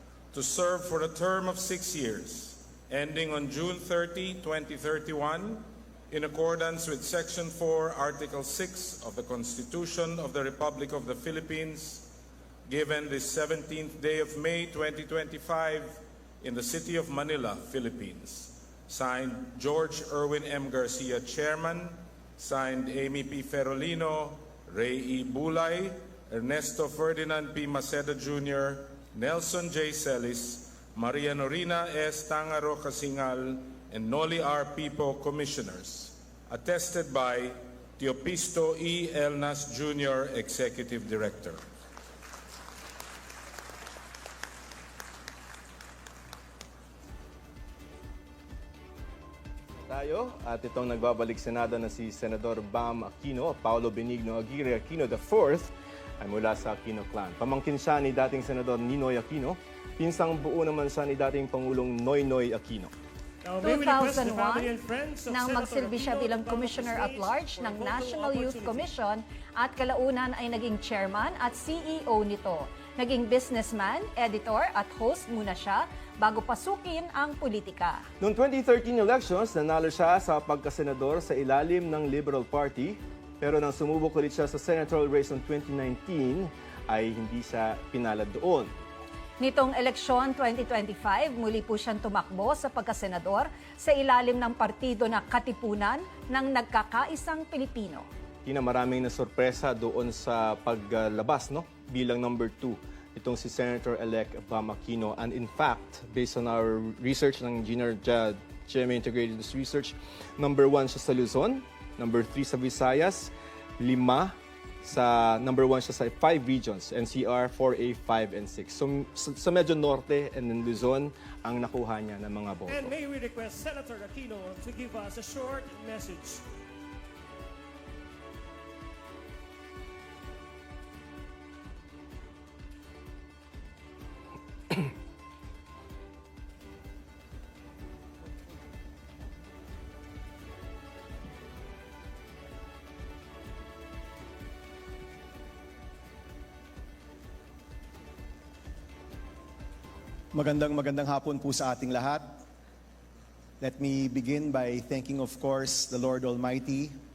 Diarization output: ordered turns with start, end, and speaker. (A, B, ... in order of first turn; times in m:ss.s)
0:00.3-0:12.1 A
0:12.7-0:41.6 A
0:49.9-1:02.9 B
1:03.4-1:09.0 C
1:03.6-1:04.7 D
1:05.3-1:18.0 D
1:18.2-1:28.7 B
1:29.4-1:38.1 D
1:38.4-2:02.9 B
2:02.7-2:06.4 C
2:30.3-2:32.2 E
2:33.6-2:36.9 E